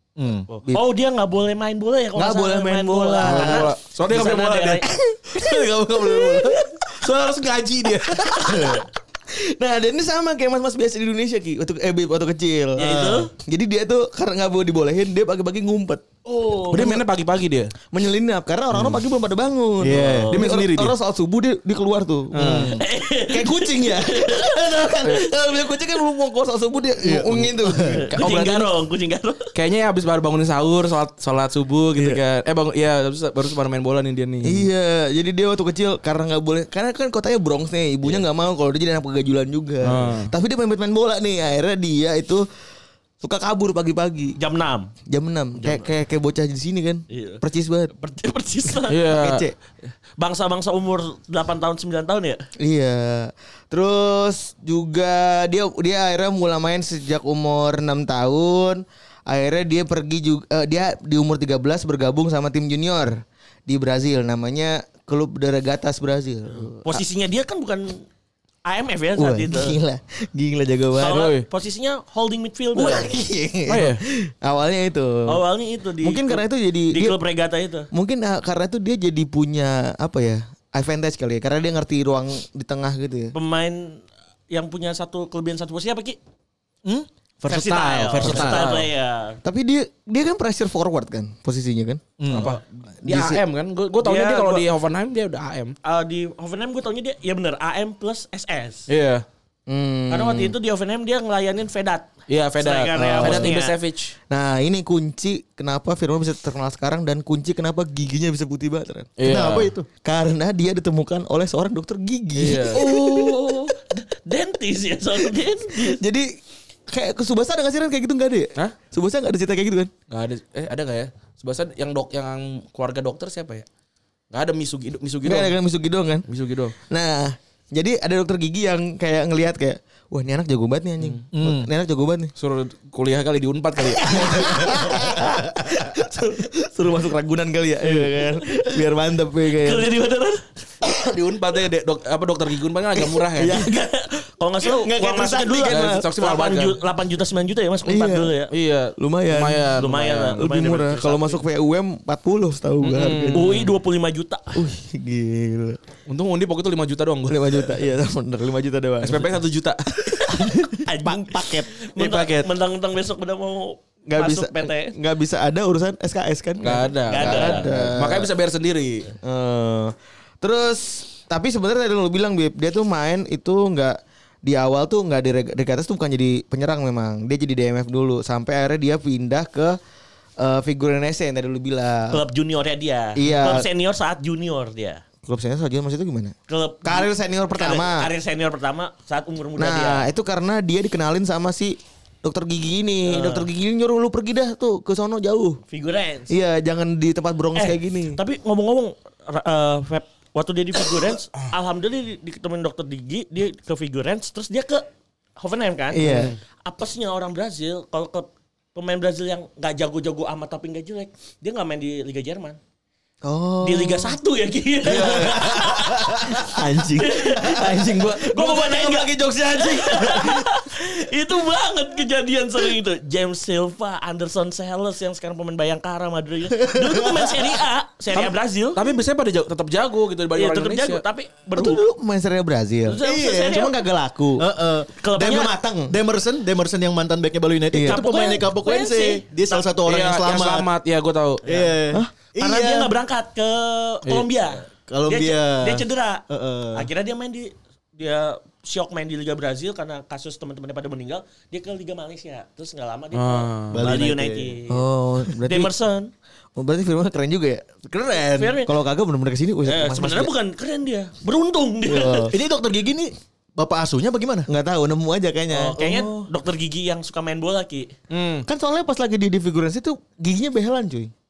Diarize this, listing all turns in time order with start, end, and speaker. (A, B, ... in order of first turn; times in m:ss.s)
0:00.2-0:00.5 A
0:00.5-0:04.9 B
0:02.2-0:03.7 C
0:03.2-0:04.8 D
0:05.1-0:06.7 C
0:06.9-0:08.6 D
0:08.4-0:08.7 C
0:08.5-0:08.8 A
0:09.3-0:17.0 C
0:12.8-0:13.3 B
0:16.3-0:16.9 B
0:16.7-0:17.7 D
0:17.9-0:28.1 C
0:19.8-0:20.3 A
0:20.1-0:20.3 B
0:20.3-0:20.9 D
0:22.3-0:22.8 D
0:22.4-0:22.8 A
0:22.8-0:25.2 B
0:27.0-0:28.0 A
0:27.9-0:29.5 B
0:28.2-0:28.7 D
0:29.6-0:34.7 D
0:34.4-0:42.4 C
0:39.8-0:40.3 D
0:43.2-0:44.4 C
0:44.4-0:44.9 B
0:45.1-0:47.9 C
0:45.6-0:45.9 B
0:47.1-0:47.4 B
0:47.9-0:49.0 B
0:48.9-0:49.5 D
0:49.1-0:49.6 C
0:50.2-0:52.4 B
0:52.6-1:07.0 C
1:06.8-1:08.0 B
1:08.7-1:09.8 B
1:09.2-1:11.3 C
1:11.0-1:13.1 B
1:11.1-1:11.4 D
1:12.7-1:15.4 C
1:13.7-1:14.0 D
1:15.3-1:17.9 B
1:16.0-1:17.2 C
1:17.9-1:23.3 C
1:23.3-1:26.2 B
1:26.8-1:28.6 A
1:27.5-1:29.4 B
1:28.2-1:28.9 D
1:29.4-1:33.4 C
1:32.2-1:32.5 A
1:32.3-1:35.8 D
1:34.0-1:34.7 B
1:35.8-1:38.9 B
1:38.9-1:39.2 D
1:39.7-1:40.6 C
1:40.1-1:43.8 B
1:42.3-1:44.2 D
1:43.0-1:43.6 C
1:44.3-1:49.2 C
1:49.2-1:49.7 D
1:49.2-1:49.9 A
1:50.0-1:53.7 C
1:52.4-1:53.0 D
1:52.7-1:56.0 B
1:55.2-1:56.3 C
1:56.9-1:59.9 C
2:00.1-2:03.7 D
2:04.3-2:05.5 D
2:05.2-2:06.2 C
2:06.3-2:06.8 D
2:06.9-2:12.3 C
2:11.3-2:11.7 A
2:12.4-2:14.8 D
2:14.1-2:19.9 C
2:14.6-2:15.1 B
2:19.6-2:20.4 B
2:20.8-2:23.6 D
2:23.0-2:23.9 C
2:23.5-2:28.5 B
2:24.6-2:26.1 C
2:25.7-2:26.8 D
2:27.8-2:28.3 C
2:28.5-2:30.4 D
2:29.0-2:29.8 C
2:29.8-2:31.4 B
2:30.3-2:33.7 C
2:32.8-2:33.7 D
2:33.3-2:34.6 B
2:34.5-2:35.8 C
2:36.1-2:37.8 D
2:37.3-2:39.4 C
2:39.0-2:40.4 D
2:40.0-2:41.7 C
2:40.9-2:44.9 B
2:42.0-2:42.5 D
2:44.1-2:48.3 C
2:46.6-2:49.1 D
2:47.1-2:47.7 B
2:49.2-2:59.8 C
3:00.4-3:02.2 C
3:02.1-3:05.0 B
3:03.2-3:03.7 C
3:05.2-3:08.1 C
3:06.5-3:10.1 B
3:09.6-3:15.6 C
3:13.1-3:13.5 B
3:15.7-3:16.4 B
3:16.3-3:18.2 C
3:17.6-3:24.9 B
3:25.4-3:32.6 B
3:25.9-3:26.4 C
3:26.0-3:26.4 D
3:33.2-3:34.2 C
3:33.6-3:48.8 B
3:34.9-3:40.5 C
3:34.9-3:38.2 A
3:46.7-3:47.2 C
3:48.1-3:51.0 D
3:50.3-3:51.8 B
3:51.6-3:54.5 C
3:52.9-3:53.8 B
3:53.0-3:53.3 A
3:54.4-4:00.7 A
3:55.0-3:55.5 B
3:55.4-3:56.0 C
3:57.7-3:58.3 C
3:57.8-3:59.7 B
3:59.8-4:01.7 D
4:01.5-4:02.9 A
4:02.4-4:14.8 B
4:04.9-4:06.9 A
4:13.1-4:14.0 D
4:13.7-4:14.6 A
4:14.7-4:15.7 C
4:15.4-4:16.1 B
4:16.6-4:17.9 C
4:17.9-4:18.6 A
4:18.4-4:18.7 B
4:18.5-4:20.3 C
4:19.6-4:22.3 B
4:21.9-4:22.3 C
4:22.3-4:24.5 A
4:24.5-4:26.3 C
4:25.5-4:27.9 B
4:28.1-4:28.5 D
4:28.5-4:31.1 C